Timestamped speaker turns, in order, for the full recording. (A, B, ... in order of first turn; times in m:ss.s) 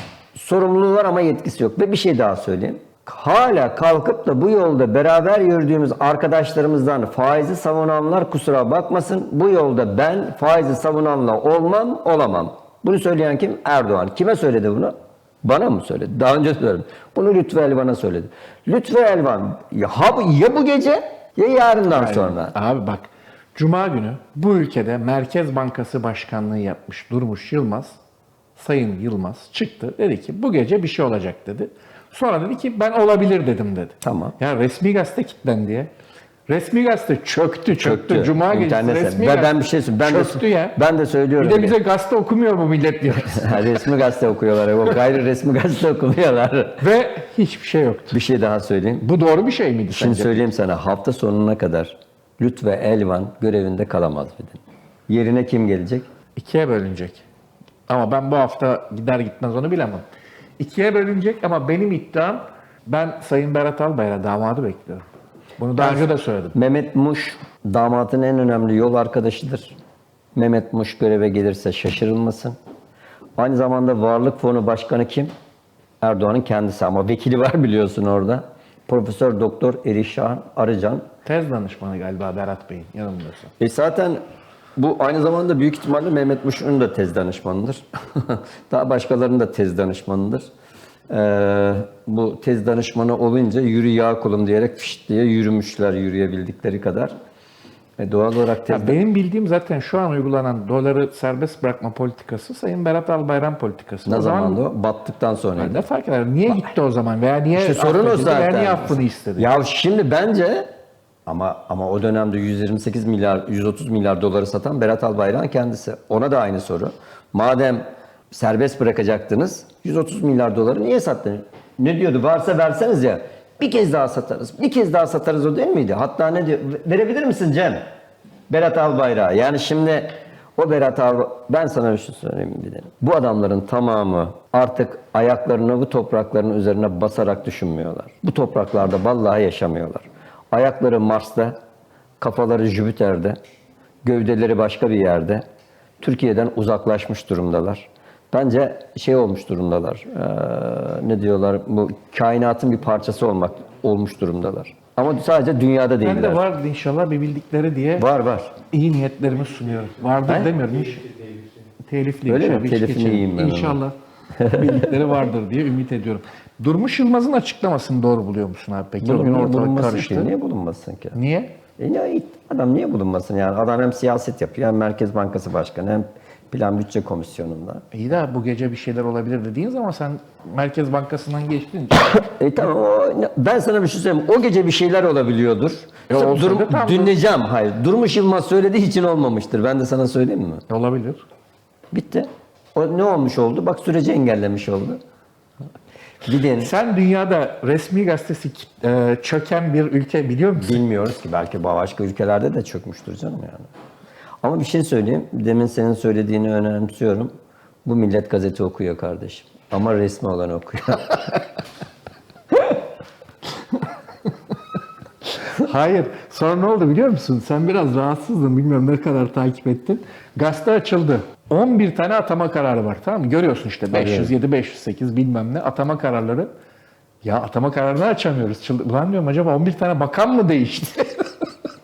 0:00.3-0:22.5 A
0:21.9-0:28.0 B
0:28.6-0:35.9 B
0:34.0-0:34.4 A
0:36.5-0:39.5 B
0:37.8-0:41.8 A
0:40.0-0:40.8 B
0:41.4-0:43.9 B
0:43.3-0:46.8 A
0:46.8-0:48.2 B
0:48.1-0:49.0 A
0:49.0-0:50.4 B
0:49.9-0:56.1 A
0:56.4-0:57.2 B
0:57.9-1:00.0 B
1:00.6-1:05.0 B
1:05.6-1:06.5 B
1:05.8-1:09.8 A
1:10.3-1:12.6 A
1:13.4-1:15.3 A
1:16.0-1:21.0 A
1:21.2-1:23.5 B
1:23.6-1:24.2 A
1:24.8-1:30.5 A
1:31.1-1:37.1 A
1:38.0-1:39.0 A
1:38.7-1:44.6 B
1:44.0-1:45.8 A
1:45.6-1:49.5 B
1:47.5-1:50.7 A
1:51.2-2:07.8 A
2:08.5-2:21.5 A
2:22.2-2:23.4 A
2:24.0-2:25.4 A
2:26.0-2:36.4 A
2:36.0-2:38.1 B
2:38.0-2:38.5 A
2:38.7-2:41.0 B
2:41.8-2:43.9 B
2:42.3-2:43.8 A
2:44.4-2:44.8 A
2:44.5-2:50.3 B
2:49.0-2:51.2 A
2:51.1-2:51.5 B
2:51.8-2:57.8 A
2:57.9-3:02.2 B
3:02.3-3:10.6 A
3:06.1-3:07.1 B
3:10.7-3:11.2 B
3:11.9-3:15.0 A
3:16.2-3:16.7 A
3:16.6-3:20.8 B
3:20.6-3:23.7 A
3:24.4-3:27.3 A
3:27.8-3:31.3 A
3:35.5-3:46.5 B
3:43.9-3:44.3 A
3:47.2-3:51.3 B